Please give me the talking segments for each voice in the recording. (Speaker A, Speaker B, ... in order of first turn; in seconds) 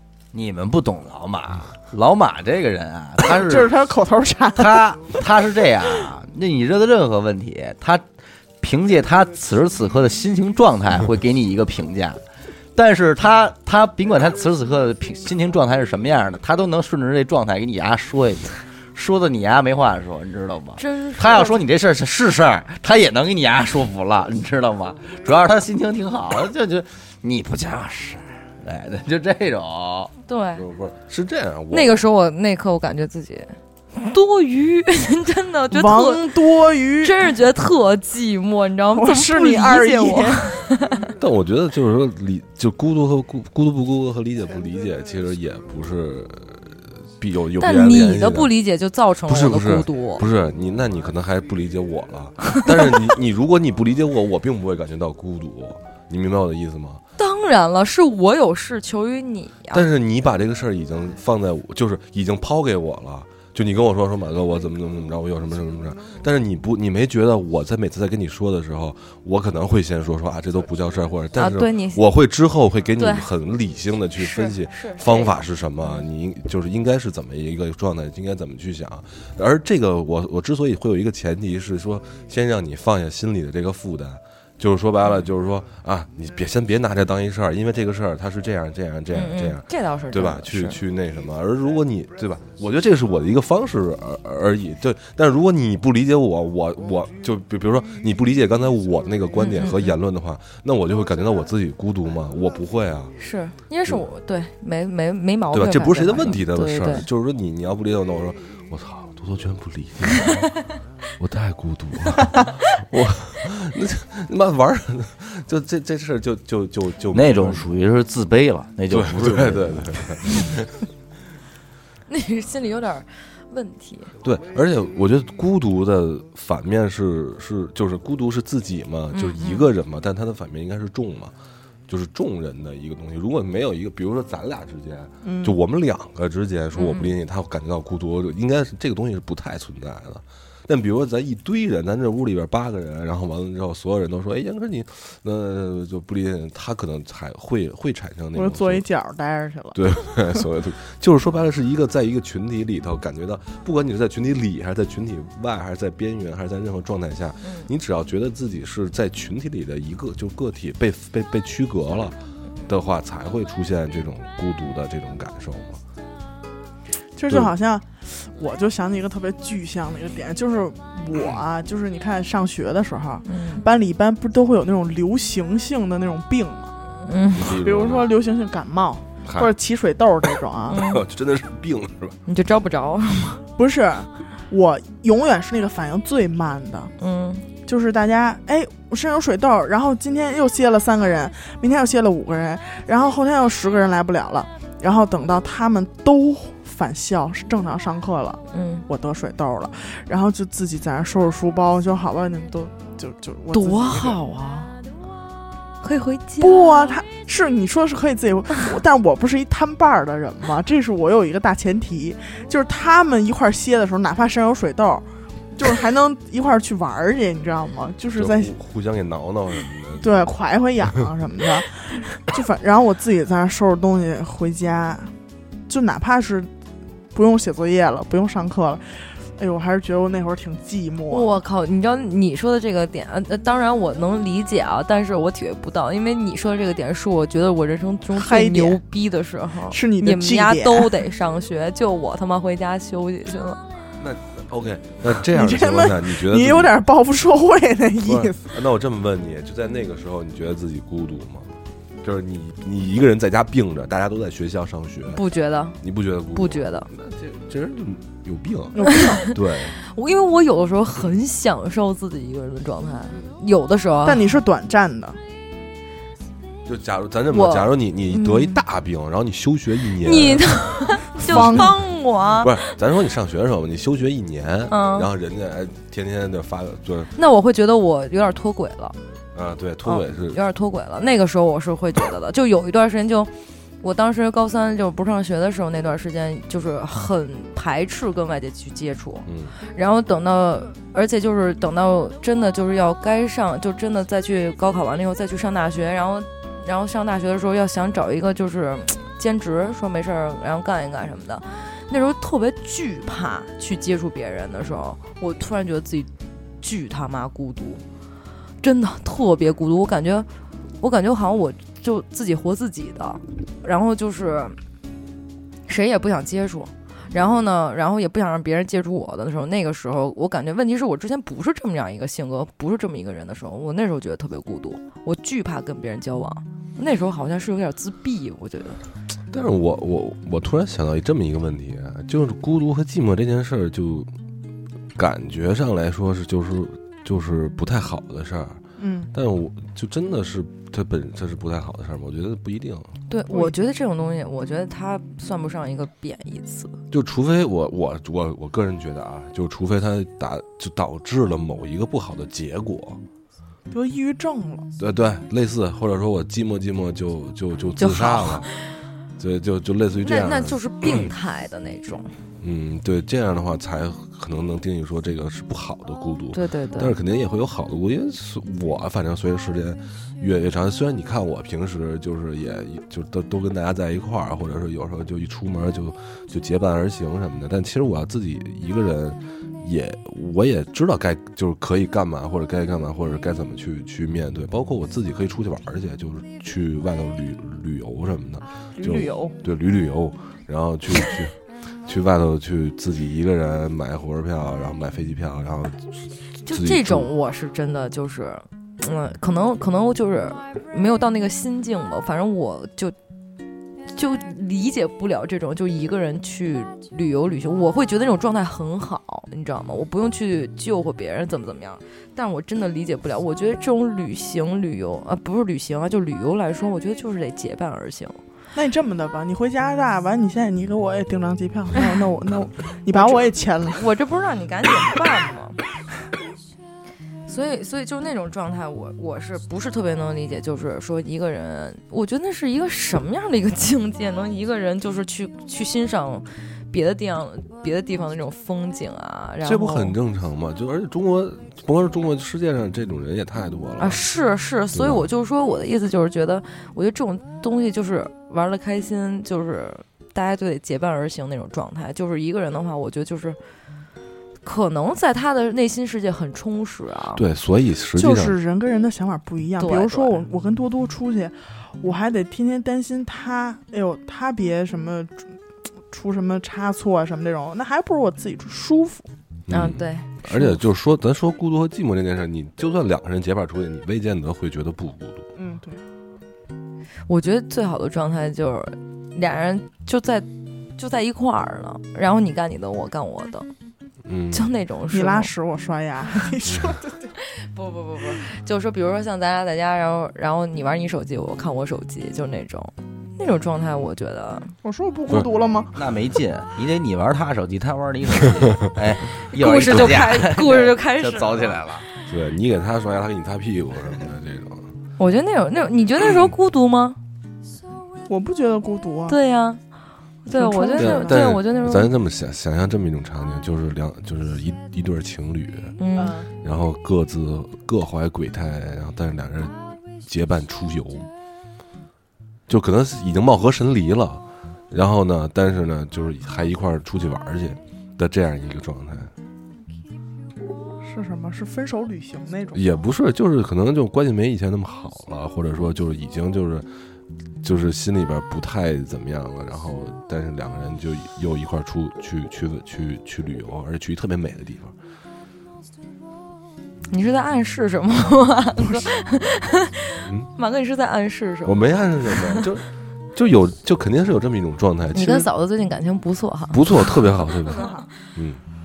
Speaker A: 0.3-3.7, 4.5-8.0, 8.6-12.2, 12.8-30.1, 117.1-120.0, 495.7-501.9
Speaker B: 3.2-4.9, 35.7-37.2, 38.9-40.5, 135.2-135.6, 148.3-150.4, 167.2-176.7, 177.4-180.8, 183.6-186.9, 187.6-204.2, 206.4-218.5, 220.0-225.1, 225.7-226.5, 227.1-228.8, 229.4-231.3, 238.1-238.8, 239.7-240.9, 245.2-248.5, 258.7-259.2, 264.0-265.2, 268.1-268.6, 271.2-271.7, 338.8-339.1, 343.3-343.5, 353.7-354.7, 388.8-389.4, 418.5-423.8, 458.0-465.3, 465.9-469.1, 475.3-475.8, 484.9-487.1, 494.6-495.7, 508.1-509.2, 510.3-511.2, 516.0-516.3, 530.8-532.6, 557.6-557.8
Speaker C: 20.8-21.6, 30.3-30.6, 31.7-36.4, 37.0-41.0, 47.6-50.2, 57.2-59.9, 71.3-72.1, 73.0-73.3, 74.2-76.0, 89.1-90.8, 99.3-100.0, 103.2-107.1, 122.1-124.1, 129.1-129.7, 136.7-137.1, 157.4-157.7, 173.2-173.7, 177.0-177.5, 180.7-181.0, 182.2-183.4, 187.0-187.4, 198.5-198.8, 203.5-204.7, 205.8-206.9, 231.1-243.6, 255.1-255.8, 256.3-256.9, 259.8-264.2, 267.3-267.7, 270.0-272.6, 274.7-275.1, 277.1-279.0, 279.8-306.1, 306.6-307.8, 308.6-310.3, 310.8-314.6, 315.7-328.8, 343.1-346.7, 357.8-358.6, 360.0-362.1, 366.3-366.9, 396.5-402.9, 403.9-418.1, 422.9-425.6, 427.3-439.9, 443.8-453.4, 454.4-457.2, 459.6-460.2, 469.5-470.6, 477.1-483.5, 484.3-485.3, 487.3-494.5, 499.3-501.6, 505.0-507.0, 509.1-509.6, 510.2-511.9, 515.8-516.2, 546.9-552.4, 554.9-557.0
Speaker D: 30.6-32.0, 41.2-48.5, 49.2-57.0, 59.7-103.1, 105.5-110.5, 111.2-117.6, 118.9-120.7, 124.2-131.3, 131.9-148.8, 149.7-162.2, 162.7-165.8, 171.1-171.4, 177.3-178.1, 179.2-179.5, 180.7-182.2, 218.1-220.2, 244.0-246.8, 248.0-255.2, 255.8-259.8, 266.6-270.4, 271.3-271.7, 272.4-277.1, 279.3-280.4, 289.2-289.5, 329.3-334.1, 334.9-338.6, 339.1-342.9, 346.9-353.0, 354.8-358.5, 359.2-361.1, 362.4-397.1, 439.4-444.0, 444.7-445.0, 457.1-458.4, 469.5-475.3, 484.0-484.5, 502.1-504.7, 510.8-515.7, 516.4-521.1, 522.5-529.1, 532.5-536.7, 537.4-544.7, 550.0-550.3, 551.4-555.3, 556.5-558.4